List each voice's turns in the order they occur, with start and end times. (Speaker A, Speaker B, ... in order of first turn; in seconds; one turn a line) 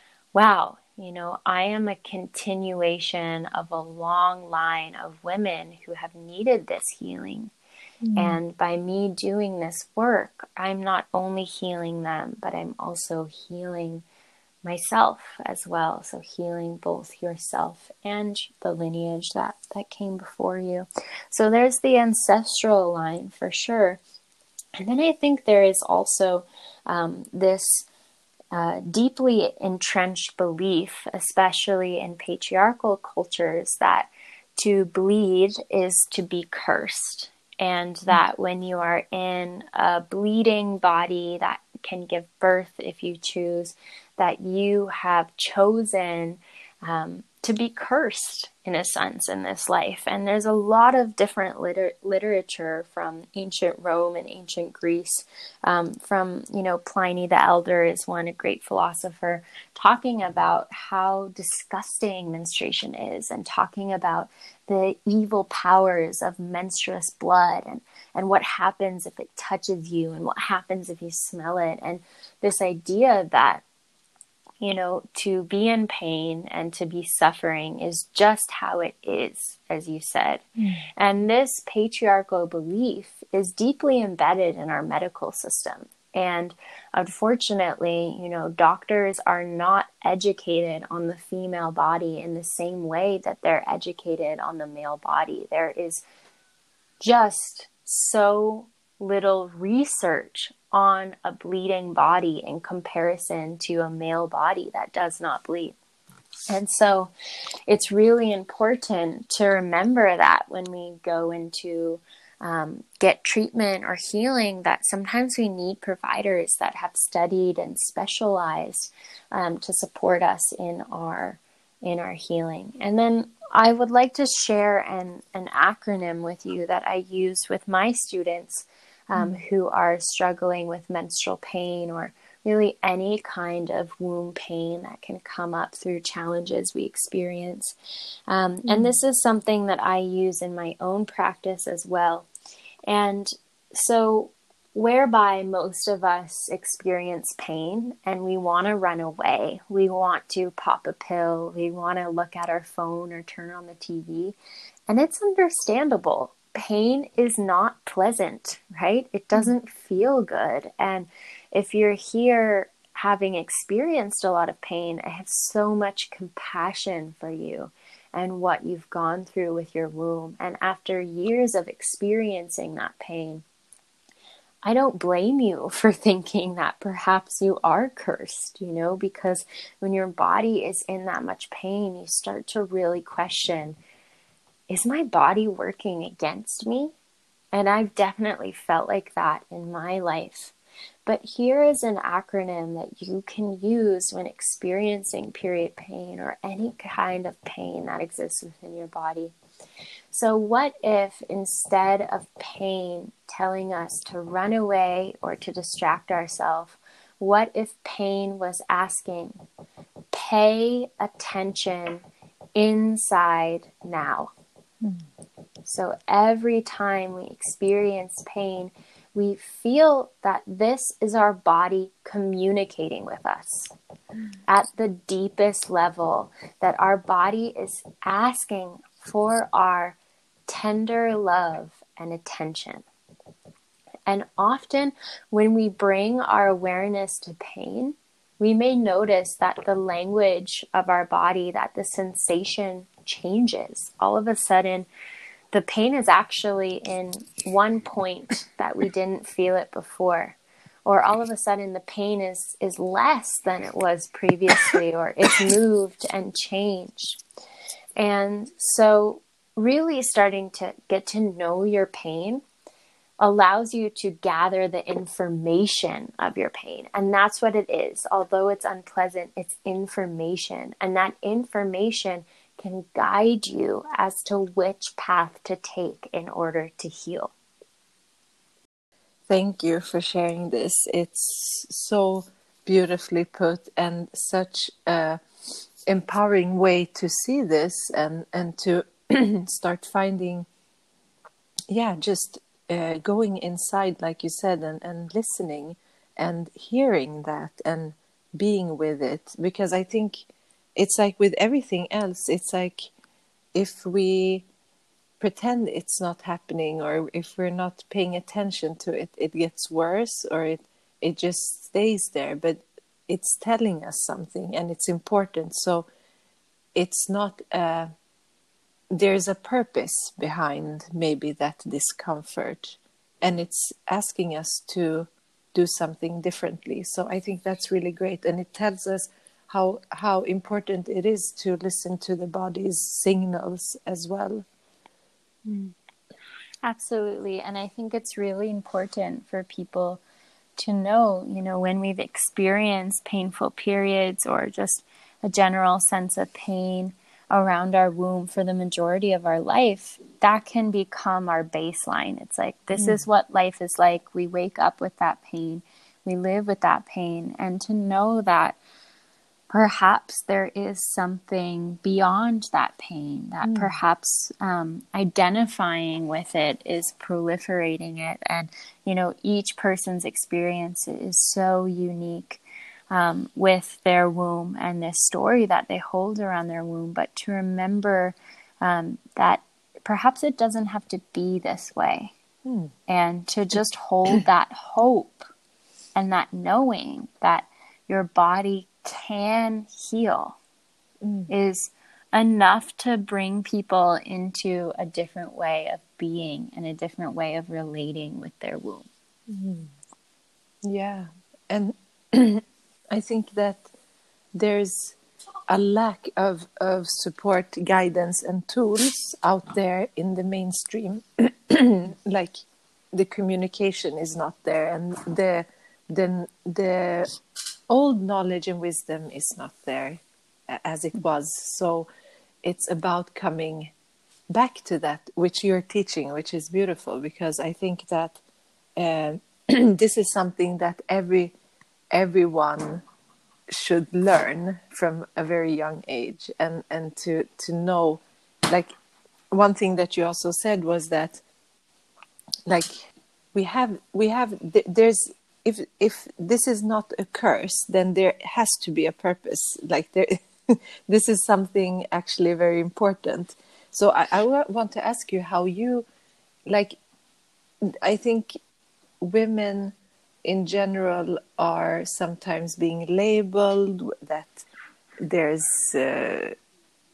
Speaker A: 0.3-7.5
Speaker B: 8.0-8.4
Speaker A: 8.1-14.0
Speaker A: 14.6-24.0
Speaker A: 24.8-27.9
Speaker A: 28.5-73.6
Speaker A: 74.6-80.4
Speaker B: 80.6-80.9
Speaker A: 81.0-96.0
Speaker A: 97.0-105.8
Speaker A: 106.5-107.1
Speaker A: 107.7-137.7
Speaker B: 129.2-129.4
Speaker A: 138.3-142.3
Speaker B: 138.7-138.9
Speaker A: 142.9-154.4
Speaker A: 154.9-173.4
Speaker A: 174.6-183.8
Speaker A: 184.7-186.9
Speaker A: 187.5-190.5
Speaker A: 191.1-199.3
Speaker A: 200.1-209.4
Speaker A: 210.1-212.0
Speaker A: 212.6-214.3
Speaker A: 215.7-223.7
Speaker A: 224.5-232.9
Speaker A: 234.1-244.9
Speaker A: 245.5-257.2
Speaker A: 258.0-262.4
Speaker A: 263.2-277.3
Speaker B: 279.3-290.5
Speaker B: 291.7-302.9
Speaker B: 303.5-304.4
Speaker B: 305.2-315.9
Speaker B: 316.7-317.9
Speaker B: 318.9-334.4
Speaker A: 335.5-335.7
Speaker A: 336.6-340.0
Speaker A: 340.6-358.6
Speaker B: 352.8-353.0
Speaker A: 359.5-382.1
Speaker B: 363.4-363.8
Speaker A: 382.9-385.3
Speaker A: 385.9-390.4
Speaker B: 391.0-391.3
Speaker A: 391.3-398.9
Speaker B: 399.3-399.7
Speaker B: 400.6-403.7
Speaker B: 404.3-404.9
Speaker B: 405.5-417.1
Speaker B: 417.7-421.9
Speaker B: 422.4-423.7
Speaker B: 424.3-428.2
Speaker B: 428.8-431.3
Speaker B: 431.9-432.8
Speaker B: 433.5-438.7
Speaker B: 439.3-441.2
Speaker B: 442.5-442.8
Speaker B: 443.3-455.9
Speaker B: 456.5-456.8
Speaker B: 457.6-458.4
Speaker B: 459.0-464.4
Speaker B: 465.0-466.4